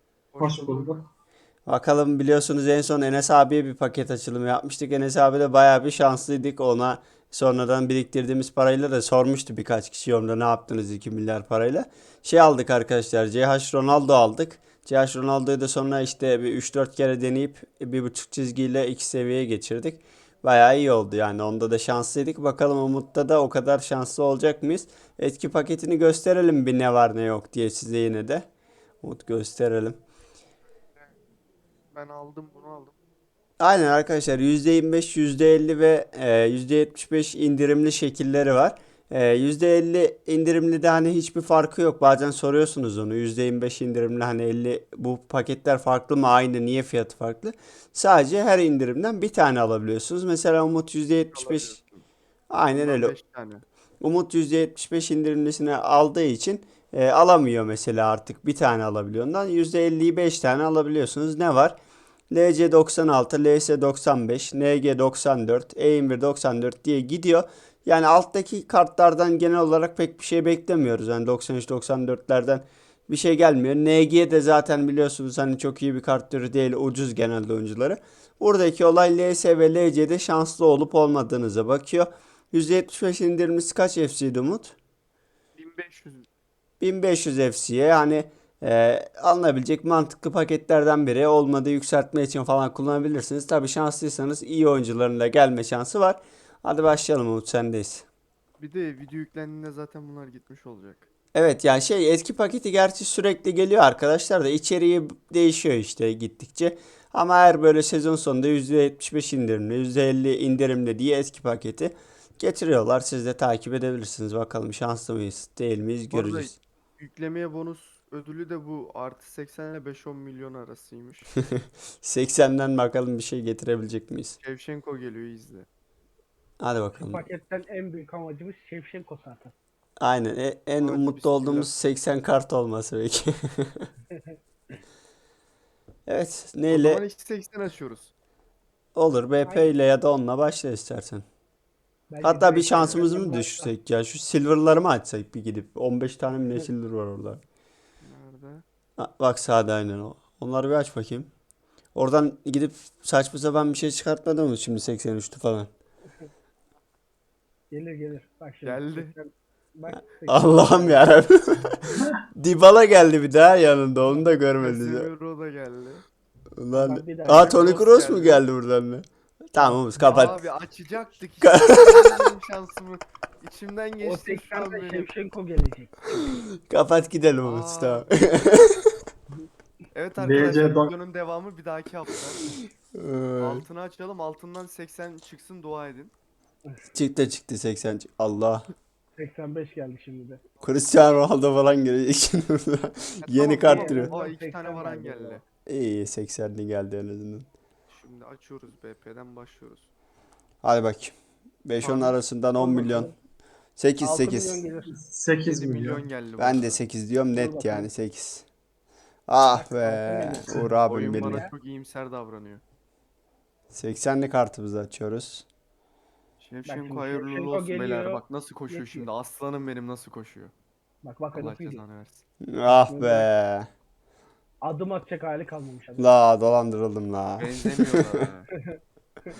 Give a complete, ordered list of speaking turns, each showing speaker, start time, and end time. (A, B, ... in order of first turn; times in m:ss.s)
0:00.3-0:01.0 A
0:00.4-0:01.0 B
0:01.6-0:28.4 C
0:29.0-0:30.0 C
0:31.9-0:32.9 A
0:33.6-0:51.8 C
0:51.3-0:52.0 A
0:52.5-0:53.1 C
0:52.7-0:53.6 A
0:54.0-1:01.8 C
1:02.3-1:24.7 C
1:25.6-1:26.3 A
1:26.8-1:38.0 C
1:38.6-1:41.1 A
1:41.3-1:56.5 C
1:56.1-2:01.3 A
2:01.5-2:04.3 C
2:04.4-2:05.7 A
2:06.6-2:07.2 C
2:06.9-2:09.5 D
2:10.0-2:13.9 C
2:10.8-2:11.7 A
2:16.0-2:17.0 C
2:16.7-2:18.1 A
2:18.9-2:21.2 C
2:19.4-2:19.7 D
2:22.1-2:23.7 D
2:22.2-2:27.4 C
2:28.0-2:28.6 A
2:29.0-2:31.3 C
2:31.9-2:35.7 C
2:37.7-2:41.0 D
2:38.6-2:39.1 A
2:39.9-2:45.1 C
2:44.6-2:46.0 A
2:46.6-2:50.4 C
2:46.7-2:47.6 D
2:47.3-2:48.4 A
2:50.0-2:55.1 A
2:51.4-2:52.2 C
2:54.0-2:56.1 D
2:56.1-2:58.8 C
2:57.4-2:58.1 A
2:59.9-3:02.4 A
3:00.2-3:00.9 B
3:02.9-3:03.6 C
3:03.4-3:06.1 A
3:06.9-3:08.6 C
3:09.2-3:10.4 D
3:10.6-3:14.1 C
3:13.2-3:15.4 A
3:13.6-3:15.4 D
3:15.7-3:17.5 C
3:17.9-3:19.9 A
3:20.6-3:23.1 C
3:21.8-3:22.2 A
3:22.6-3:23.1 D
3:23.8-3:24.6 C
3:24.0-3:24.9 D
3:24.8-3:26.0 B
3:25.4-3:26.8 A
3:26.4-3:28.4 C
3:27.3-3:27.9 D
3:29.3-3:31.5 C
3:29.5-3:31.5 D
3:30.9-3:32.6 A
3:33.7-3:35.4 C
3:36.4-3:40.5 A
3:36.6-3:39.1 D
3:41.0-3:41.8 D
3:41.3-3:42.2 A
3:42.4-3:43.7 C
3:42.7-3:43.3 D
3:44.6-3:46.1 D
3:46.0-3:47.5 C
3:47.4-3:48.5 A